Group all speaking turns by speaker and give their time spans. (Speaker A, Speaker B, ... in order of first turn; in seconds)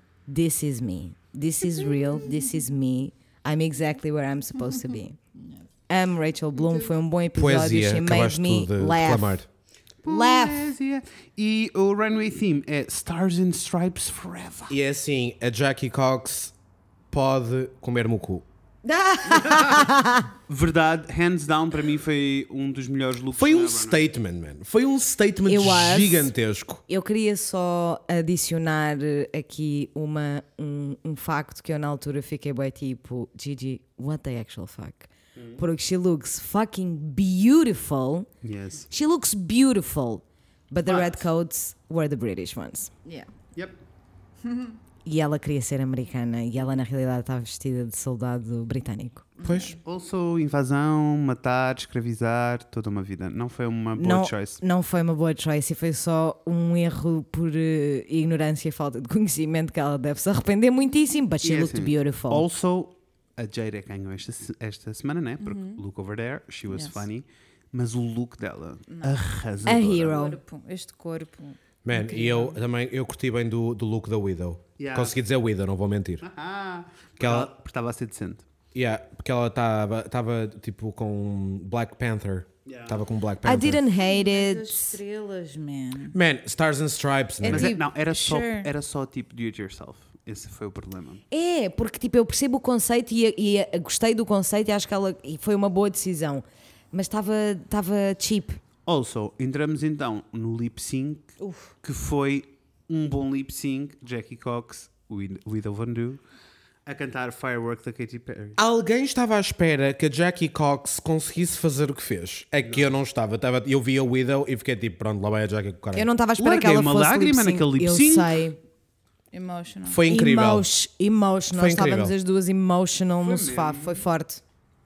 Speaker A: 0.3-5.2, 5.9-9.4, 10.1-10.7, 18.8-20.3, 25.5-26.3, 26.9-38.3, 38.9-42.9, 45.0-49.3, 54.0-62.5, 69.7-70.4, 83.4-85.0, 91.3-98.6, 101.4-101.7, 115.9-118.6, 120.1-124.4
Speaker B: 6.6-6.9, 10.0-14.8, 20.5-24.1, 35.4-35.6, 38.4-38.9, 40.8-41.3, 49.8-54.6, 61.4-70.2, 74.8-75.2, 76.2-78.4, 82.7-83.0, 87.5-91.2, 98.9-106.2, 106.9-108.6, 112.6-112.9, 116.4-118.4, 123.2-124.0
Speaker C: 7.3-9.5, 14.7-16.5, 17.1-18.4, 23.3-26.8, 49.4-49.8, 71.8-76.2, 77.2-77.5, 78.7-83.8, 86.1-87.8, 108.6-116.1, 119.9-120.7, 121.5-122.2
Speaker D: 44.5-44.7, 49.4-49.8, 65.4-65.8, 66.7-67.0, 68.9-69.2, 70.1-72.6, 84.0-86.2, 87.4-88.7, 119.3-120.0